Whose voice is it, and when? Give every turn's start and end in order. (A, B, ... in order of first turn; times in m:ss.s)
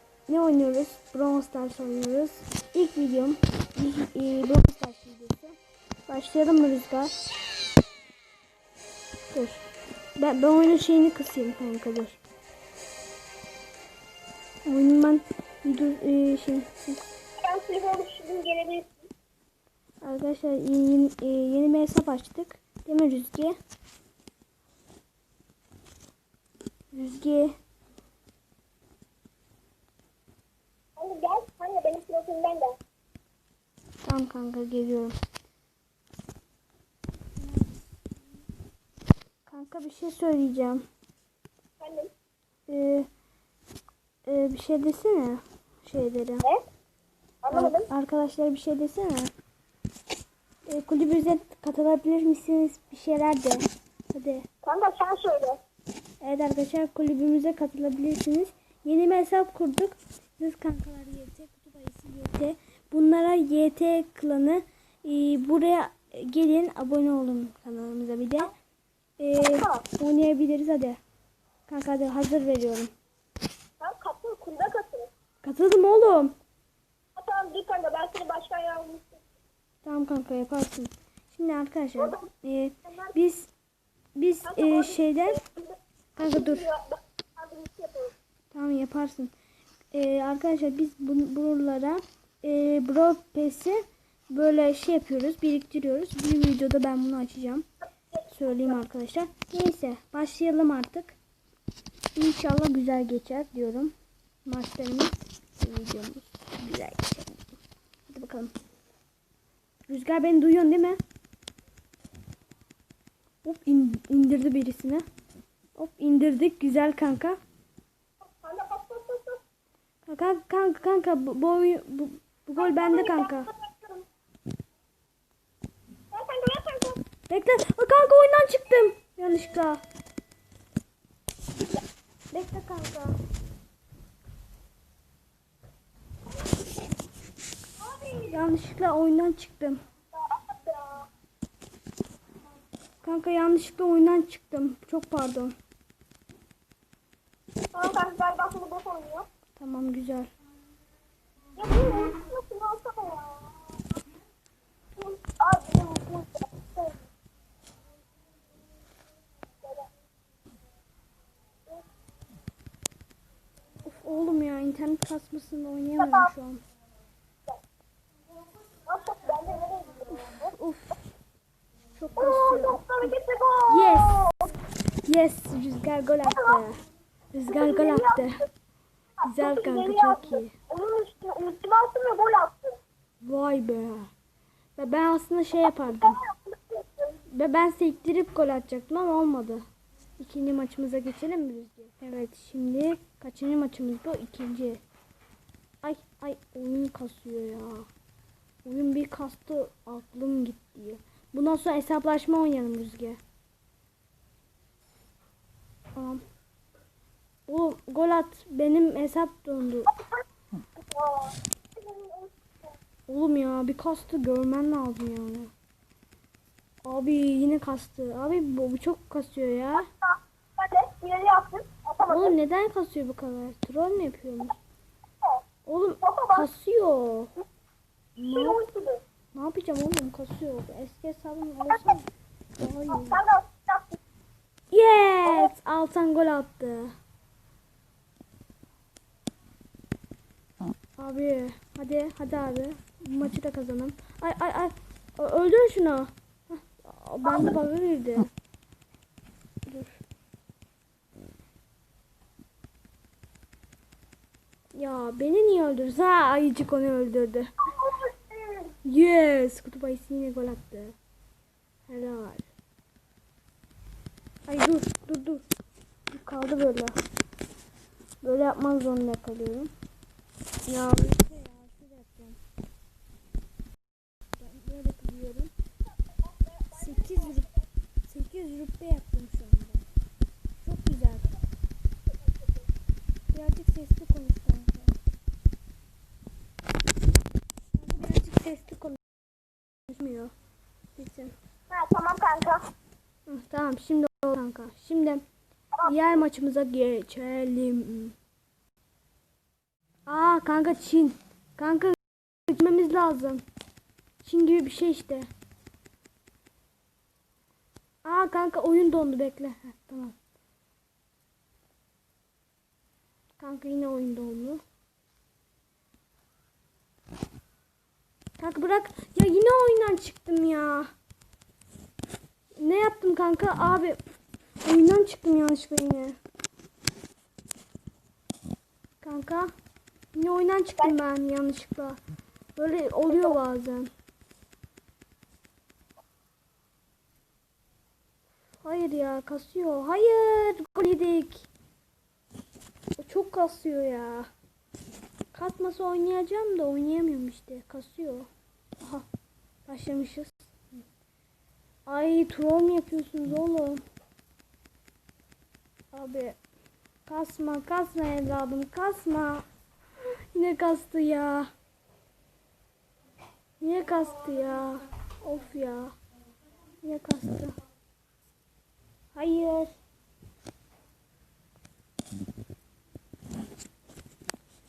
0:00.3-0:07.1 A
0:09.3-0:09.6 A
0:10.2-0:12.2 A
0:14.7-0:17.0 A
0:17.4-0:19.0 B
0:20.0-0:23.6 A
0:26.9-0:27.5 A
0:31.0-0:32.8 B
0:34.0-0:35.2 A
0:39.4-0:40.8 A
0:41.8-0:42.1 B
0:42.7-0:43.1 A
0:44.3-0:46.4 A
0:47.4-0:47.9 B
0:47.5-0:49.3 A
0:50.7-0:54.4 A
0:54.6-0:55.6 B
0:56.2-1:08.5 A
1:09.2-1:11.0 A
1:09.4-1:09.8 B
1:11.7-1:12.9 A
1:13.8-1:15.1 B
1:15.4-1:16.3 A
1:17.2-1:19.2 B
1:19.8-1:23.5 A
1:22.0-1:22.2 B
1:22.9-1:23.1 B
1:24.2-1:25.4 A
1:24.4-1:28.1 B
1:26.2-1:26.7 A
1:28.5-1:29.3 A
1:29.9-1:37.6 A
1:38.3-1:41.2 A
1:42.1-1:43.9 A
1:44.4-1:47.5 A
1:48.1-1:48.5 A
1:49.9-1:51.0 A
1:53.4-1:55.0 A
1:55.8-1:57.4 A
1:58.4-1:59.4 B
2:00.0-2:03.5 A
2:02.6-2:04.0 B
2:06.1-2:07.0 B
2:07.3-2:09.8 A
2:12.3-2:13.2 A
2:17.8-2:18.4 B
2:18.3-2:19.8 A
2:20.2-2:21.1 B
2:23.0-2:25.6 A
2:27.7-2:29.3 B
2:29.6-2:30.3 A
2:31.6-2:33.8 B
2:35.0-2:37.0 B
2:39.6-2:39.9 B
2:43.8-2:46.6 A
2:46.0-2:46.3 B
2:48.9-2:50.5 B
2:50.1-2:51.0 A
2:52.0-2:53.1 A
2:52.2-2:54.5 B
2:53.7-2:54.2 A
2:55.0-2:56.8 A
2:56.3-2:56.6 B
2:57.3-2:58.4 A
2:57.5-2:58.4 B
2:59.2-3:00.5 A
2:59.2-3:02.8 B
3:03.2-3:04.1 A
3:04.8-3:06.2 A
3:06.5-3:07.2 B
3:07.3-3:09.6 A
3:10.2-3:14.8 A
3:15.8-3:17.9 A
3:18.6-3:23.2 A
3:26.0-3:26.2 A
3:27.5-3:29.9 A
3:30.8-3:32.3 B
3:33.1-3:35.5 A
3:36.8-3:39.9 A
3:40.0-3:42.4 B
3:42.1-3:44.6 A
3:45.7-3:47.3 A
3:46.0-3:46.5 B
3:48.2-3:48.6 A
3:48.3-3:49.0 B
3:49.3-3:53.2 A
3:52.9-3:54.0 B
3:54.7-3:57.0 A
4:01.0-4:08.3 A
4:09.6-4:10.0 A
4:14.7-4:17.5 A
4:17.8-4:18.7 B
4:18.8-4:21.0 A
4:21.9-4:22.5 A
4:24.5-4:25.4 A
4:26.1-4:27.0 A
4:28.2-4:29.7 A
4:30.7-4:32.4 A
4:34.4-4:35.5 A
4:36.4-4:37.6 B
4:36.7-4:37.5 A
4:38.1-4:39.8 A
4:40.6-4:41.3 A
4:43.3-4:44.9 A
4:47.8-4:49.2 A
4:49.7-4:50.3 A
4:50.9-4:51.4 A
4:51.7-4:52.6 B
4:53.3-4:55.2 A
4:55.8-4:56.1 B
4:55.8-4:58.2 A
5:00.1-5:03.4 A
5:04.2-5:05.3 A
5:08.0-5:10.2 A
5:13.4-5:14.6 A
5:18.4-5:20.9 A
5:22.6-5:24.0 A
5:24.6-5:26.2 A
5:29.0-5:29.5 A
5:30.1-5:32.0 A
5:32.6-5:33.9 A
5:38.6-5:41.5 A
5:43.0-5:44.3 A
5:45.3-5:48.3 A
5:48.8-5:49.1 A
5:49.7-5:50.5 A
5:51.9-5:53.8 A
5:55.9-5:56.4 A
5:57.1-5:59.4 A
6:00.0-6:01.5 A
6:03.6-6:05.9 A
6:06.8-6:07.6 A
6:09.2-6:09.8 A